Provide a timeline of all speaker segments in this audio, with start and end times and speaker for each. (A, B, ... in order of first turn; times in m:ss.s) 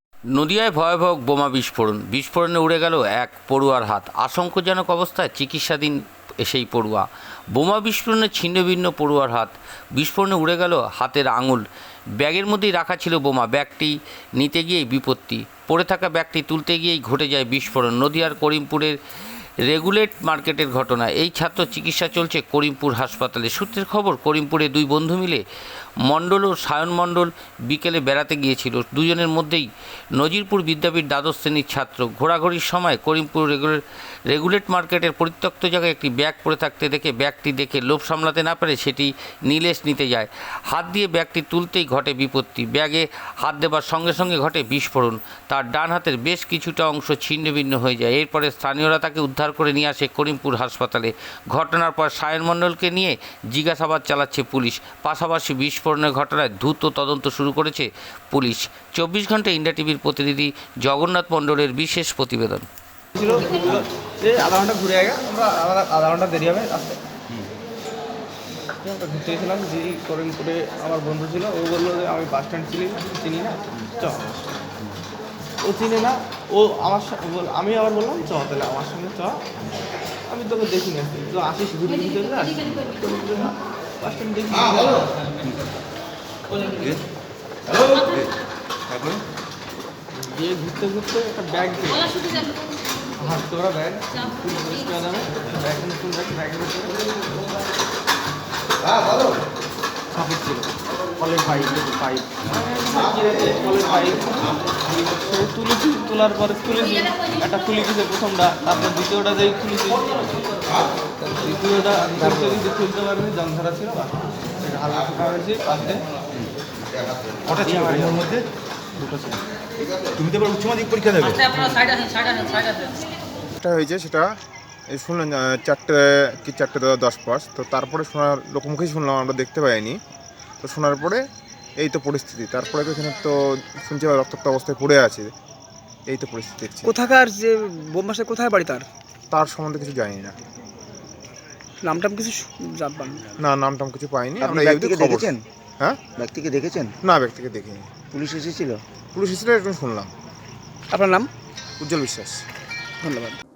0:00.3-0:11.6 A
0:12.2-0:19.0 A
0:19.6-0:25.4 A
0:26.1-1:02.7 A
1:03.2-1:07.0 B
1:08.8-1:14.3 B
1:15.6-1:19.4 B
1:20.3-1:25.4 B
1:28.9-1:29.2 C
1:30.2-1:32.6 B
1:33.2-1:37.0 B
1:40.1-1:56.0 B
1:57.5-1:58.4 B
1:58.0-1:58.4 C
1:59.0-1:59.4 B
2:00.2-2:01.9 C
2:03.6-2:04.4 D
2:04.9-2:10.0 D
2:10.6-2:11.2 D
2:11.8-2:15.3 D
2:16.1-2:16.9 D
2:16.9-2:18.9 E
2:19.3-2:20.4 D
2:21.8-2:23.3 E
2:23.4-2:26.0 D
2:24.4-2:25.4 F
2:26.2-2:27.0 F
2:27.0-2:27.9 D
2:28.1-2:28.8 F
2:29.1-2:30.1 D
2:30.9-2:31.3 E
2:31.8-2:32.4 D
2:33.0-2:33.4 E